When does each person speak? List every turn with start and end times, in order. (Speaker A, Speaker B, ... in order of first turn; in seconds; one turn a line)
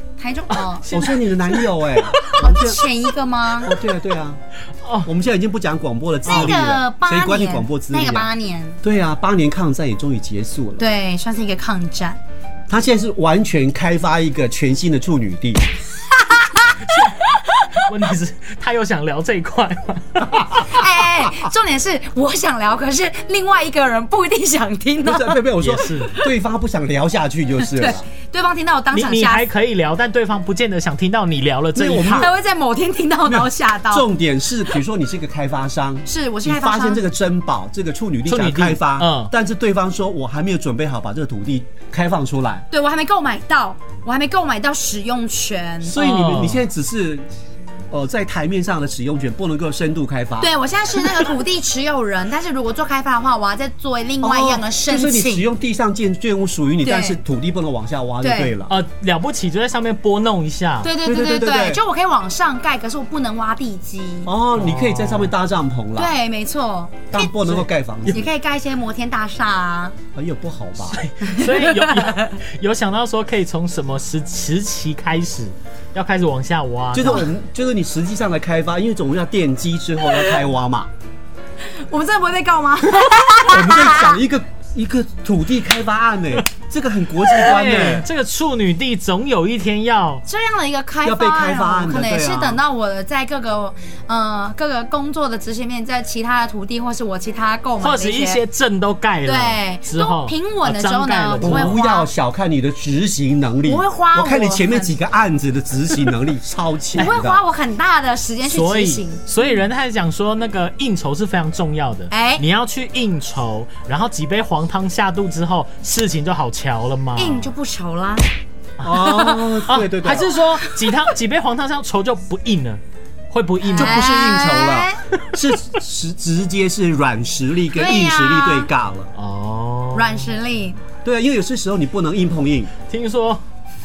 Speaker A: 0.2-1.0
Speaker B: 0.8-1.6
Speaker C: 0.9-2.8
Speaker A: 2.4-3.7
Speaker C: 3.6-4.4
Speaker B: 4.8-5.1
Speaker C: 5.0-8.3
Speaker B: 6.2-6.6
Speaker A: 6.2-8.8
Speaker C: 8.8-10.8
Speaker A: 10.8-12.2
Speaker C: 12.7-15.6
Speaker A: 16.3-16.7
Speaker B: 16.8-20.8
Speaker A: 20.7-25.4
Speaker C: 25.0-28.1
Speaker B: 25.6-26.2
Speaker A: 27.7-29.5
Speaker B: 28.9-32.3
Speaker C: 31.7-32.3
Speaker A: 32.1-34.1
Speaker C: 33.3-42.6
Speaker A: 36.0-37.0
Speaker B: 38.2-39.3
Speaker A: 42.7-46.0
Speaker B: 45.8-46.6
Speaker C: 45.9-47.3
Speaker C: 47.9-50.5
Speaker A: 50.4-55.4
Speaker C: 54.2-58.7
Speaker A: 56.8-57.2
Speaker A: 58.2-58.5
Speaker B: 58.7-60.9
Speaker A: 60.8-64.3
Speaker C: 61.0-61.8
Speaker C: 64.2-66.1
Speaker B: 64.5-65.3
Speaker A: 66.0-67.5
Speaker C: 67.1-68.3
Speaker A: 68.1-69.9
Speaker C: 70.1-71.0
Speaker B: 70.9-77.3
Speaker A: 71.2-72.3
Speaker C: 76.9-80.9
Speaker A: 81.7-84.2
Speaker C: 83.5-88.1
Speaker B: 87.3-90.2
Speaker A: 90.2-98.4
Speaker C: 91.0-92.6
Speaker B: 97.8-101.8
Speaker A: 99.2-102.1
Speaker C: 101.4-107.4
Speaker A: 103.6-104.9
Speaker A: 106.9-109.2
Speaker B: 108.5-117.5
Speaker A: 112.1-112.4
Speaker A: 117.1-118.3
Speaker B: 118.8-124.1
Speaker C: 118.8-120.3
Speaker A: 119.0-119.5
Speaker A: 120.2-120.9
Speaker A: 123.7-125.0
Speaker C: 123.7-129.1
Speaker A: 127.7-128.7
Speaker B: 129.1-130.4
Speaker A: 129.9-130.8
Speaker C: 131.0-132.7
Speaker B: 132.9-133.4